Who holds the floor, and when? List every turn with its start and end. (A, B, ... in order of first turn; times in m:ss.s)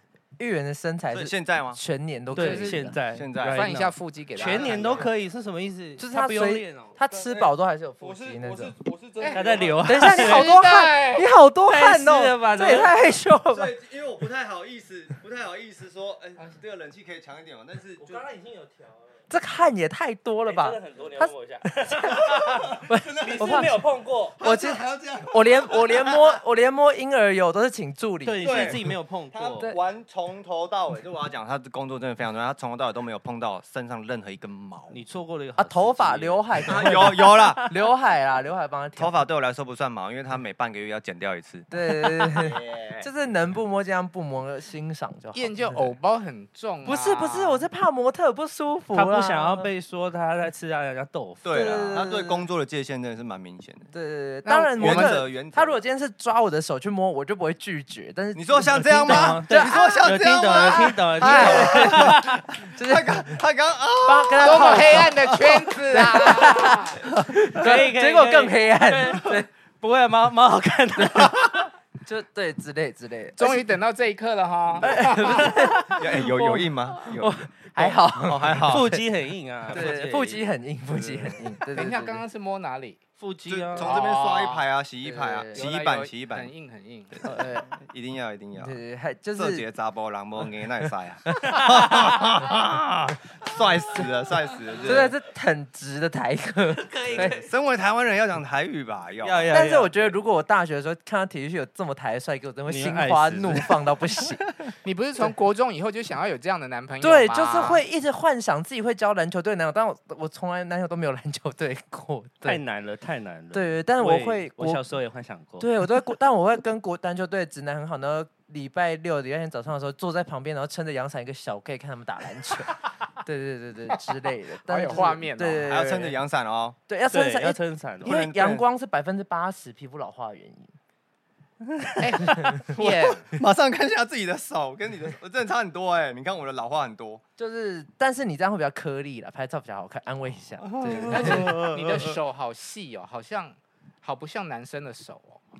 0:00.4-0:03.0 A
0:01.1-0:01.8 B
0:02.3-0:02.9 C
0:02.3-0:07.0 D
0:03.1-0:03.7 B
0:03.5-0:05.1 C
0:04.4-0:05.1 B
0:06.0-0:08.8 A
0:07.1-0:10.0 B
0:09.3-0:10.5 D
0:09.8-0:13.7 A
0:10.0-0:11.3 C
0:11.7-0:12.9 D
0:13.5-0:18.2 B
0:18.0-0:19.1 D
0:19.3-0:23.8 A
0:20.4-0:24.4 D
0:22.3-0:23.8 B
0:24.3-0:26.4 B
0:24.4-0:28.8 A
0:28.2-0:29.7 D
0:28.4-0:35.0 B
0:34.9-0:37.8 D
0:35.6-0:39.2 A
0:36.7-0:37.6 B
0:39.0-0:43.1 B
0:41.7-0:45.9 A
0:45.3-0:47.6 C
0:46.8-0:49.7 A
0:48.9-0:51.6 D
0:51.4-0:53.9 B
0:51.5-0:52.4 A
0:53.9-1:03.4 A
0:54.4-0:55.2 C
0:54.8-0:55.8 B
0:58.3-1:05.6 B
0:59.0-1:02.4 D
1:04.0-1:09.5 A
1:04.4-1:07.0 C
1:07.5-1:11.7 D
1:11.0-1:11.4 A
1:12.0-1:13.6 A
1:13.4-1:15.4 C
1:14.8-1:19.0 A
1:15.1-1:16.0 D
1:16.0-1:18.9 B
1:18.6-1:20.5 D
1:19.7-1:22.2 A
1:20.9-1:21.4 B
1:21.7-1:23.0 C
1:23.2-1:24.0 D
1:23.4-1:26.5 B
1:23.8-1:24.6 C
1:25.0-1:25.6 A
1:25.5-1:27.3 C
1:27.1-1:28.8 B
1:27.2-1:27.7 A
1:28.6-1:29.6 A
1:29.3-1:35.1 B
1:31.4-1:32.2 D
1:34.8-1:37.4 A
1:36.7-1:37.5 D
1:37.1-1:39.6 B
1:39.2-1:40.1 D
1:39.5-1:44.7 A
1:42.7-1:43.7 D
1:44.8-1:47.8 C
1:47.0-1:52.6 A
1:52.4-1:56.0 D
1:53.5-1:54.8 A
1:55.6-2:06.2 A
2:04.6-2:05.7 C
2:05.6-2:06.8 B
2:06.9-2:10.7 A
2:07.1-2:08.2 D
2:08.0-2:08.6 B
2:11.7-2:12.6 D
2:12.0-2:13.3 C
2:13.2-2:17.2 B
2:17.4-2:21.5 A
2:20.6-2:22.2 B
2:20.8-2:25.4 C